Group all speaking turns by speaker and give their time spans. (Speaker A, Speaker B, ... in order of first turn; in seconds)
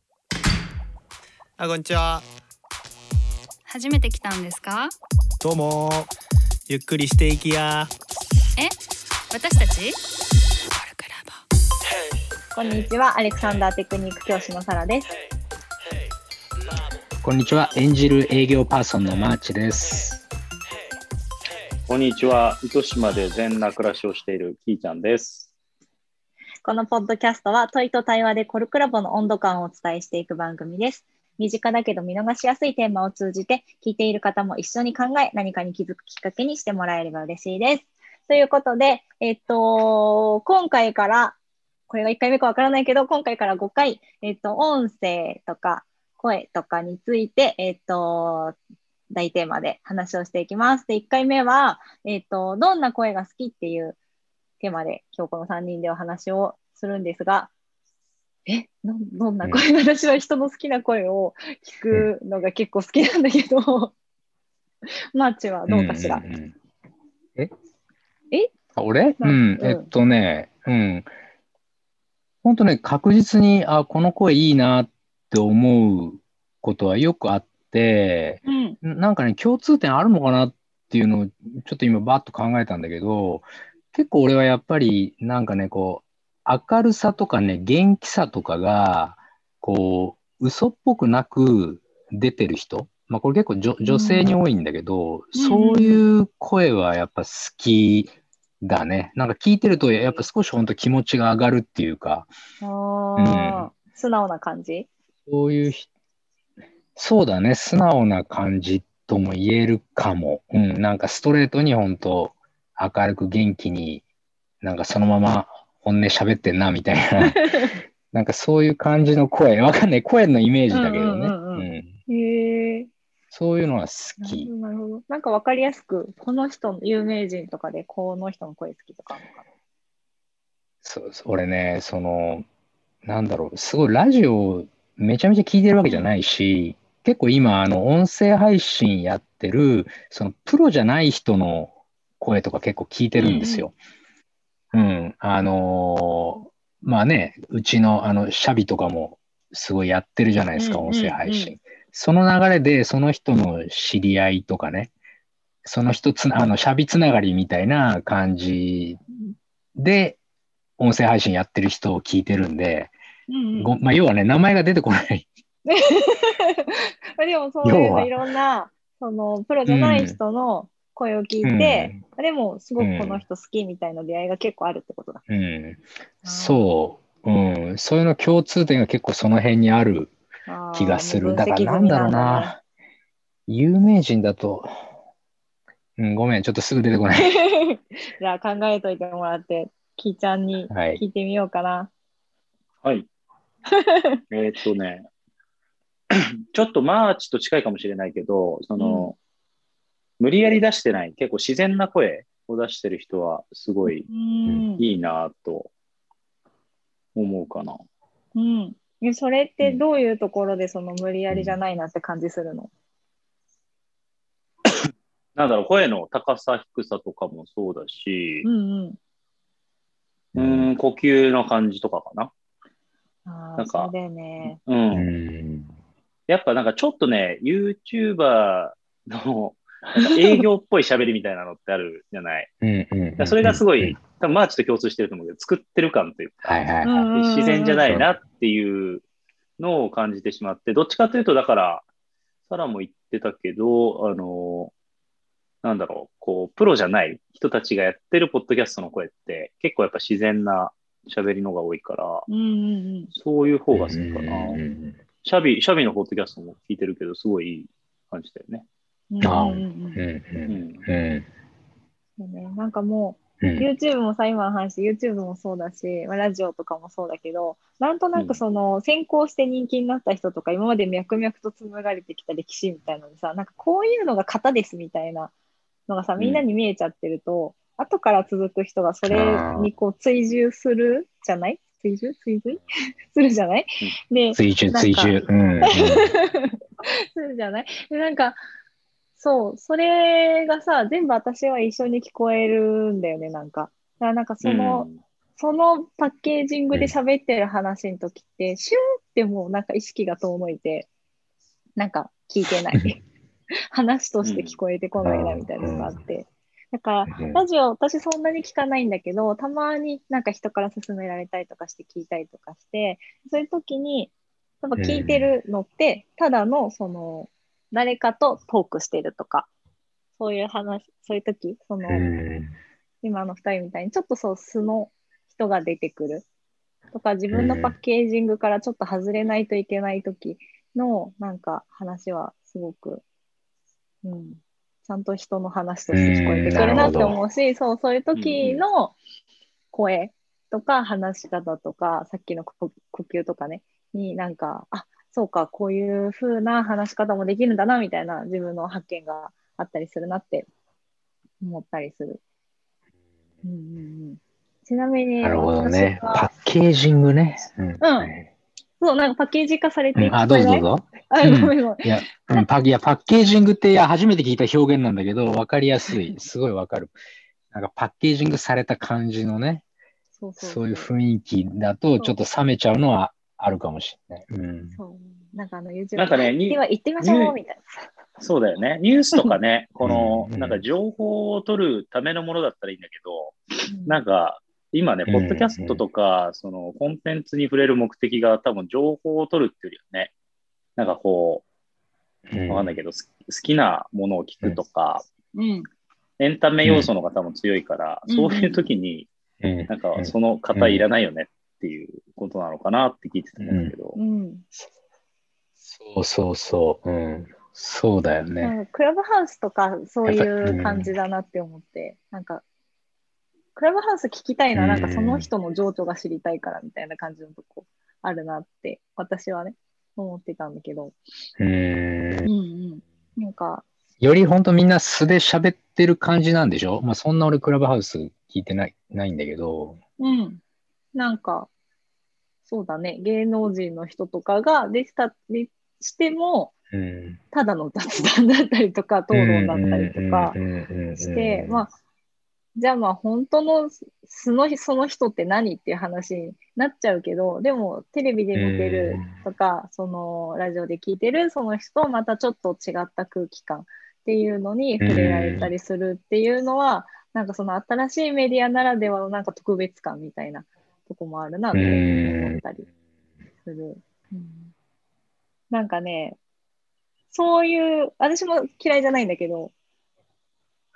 Speaker A: 1.6-2.2, 5.4-6.1, 6.7-7.9
Speaker B: 3.7-4.9, 9.3-10.0, 10.7-11.4
Speaker C: 12.5-15.1, 26.6-41.4, 41.9-48.6, 49.1-54.0, 54.6-57.5, 58.5-63.9, 65.1-66.2, 69.2-69.9, 78.5-78.8, 93.8-94.3, 95.3-96.0, 99.8-100.3, 102.6-104.9, 117.2-117.7, 120.7-122.9, 124.2-129.4, 135.8-136.1, 143.2-143.7, 150.6-151.6, 163.3-163.7, 165.7-175.2, 176.2-176.7, 180.5-182.6, 187.2-191.9, 193.7-194.2, 198.8-199.1, 204.1-204.8, 208.3-212.7, 218.4-219.0, 223.2-224.6, 236.8-237.9, 252.3-253.1, 259.1-260.0, 262.2-275.3, 275.9-288.4, 289.2-300.9, 301.8-303.0, 303.7-319.5, 320.1-322.1, 323.0-326.3, 326.9-333.0, 334.0-339.0, 339.7-350.5, 351.4-352.2, 353.4-356.3, 357.8-358.1, 358.8-362.5, 370.2-370.9, 374.7-377.8, 383.7-384.0, 395.3-395.7, 398.1-398.7, 403.9-404.5, 408.4-412.4, 413.6-421.0, 422.2-423.6, 430.0-430.4, 430.9-431.5, 432.5-436.5, 437.3-440.4, 441.0-441.7, 442.6-462.7, 463.4-464.5, 465.5-466.2, 467.1-469.5
Speaker D: 17.2-20.2, 59.4-59.7, 65.7-66.5, 68.8-71.1, 72.4-102.3, 103.2-103.7, 105.3-105.9, 107.0-114.0, 114.6-121.9, 123.3-124.5, 130.8-132.4, 133.1-143.7, 144.7-154.9, 155.7-159.0, 159.8-160.2, 160.8-162.9, 163.6-165.3, 167.6-168.1, 169.7-170.2, 171.4-172.0, 172.8-173.2, 175.3-180.1, 180.7-182.6, 183.5-184.7, 186.0-187.4, 190.7-191.0, 211.3-211.6, 220.3-220.7, 224.9-225.7, 232.6-234.0, 236.4-237.1, 253.7-255.0, 259.2-261.3, 263.4-263.7, 279.1-279.7, 284.3-286.1, 305.0-305.9, 307.1-307.4, 314.8-315.3, 321.9-322.5, 327.3-327.8, 335.9-337.2, 355.2-358.3, 359.9-366.9, 367.5-369.6, 370.4-374.8, 379.8-380.6, 385.1-385.8, 392.3-392.7, 396.6-396.9, 399.4-400.9, 403.4-403.7, 405.7-408.5, 410.1-410.9, 414.6-415.3, 421.4-422.3, 424.0-429.8, 436.7-437.2, 439.1-441.6, 448.3-449.1, 454.8-455.5, 461.5-462.4
Speaker E: 21.9-25.5, 194.3-195.1, 196.2-199.2, 200.2-204.1, 204.8-205.7, 207.2-207.8, 215.4-218.5, 220.4-222.3, 223.6-223.9, 224.7-225.1, 226.3-232.5, 233.2-236.6, 237.1-239.0, 239.6-241.8, 242.5-244.7, 245.6-252.3, 253.1-254.6, 255.2-258.7, 260.5-260.8, 276.2-276.4, 294.4-295.0, 304.2-304.6, 338.1-338.6, 376.0-377.4, 378.2-390.1, 390.8-391.4, 392.5-395.1, 396.2-399.1, 399.7-404.0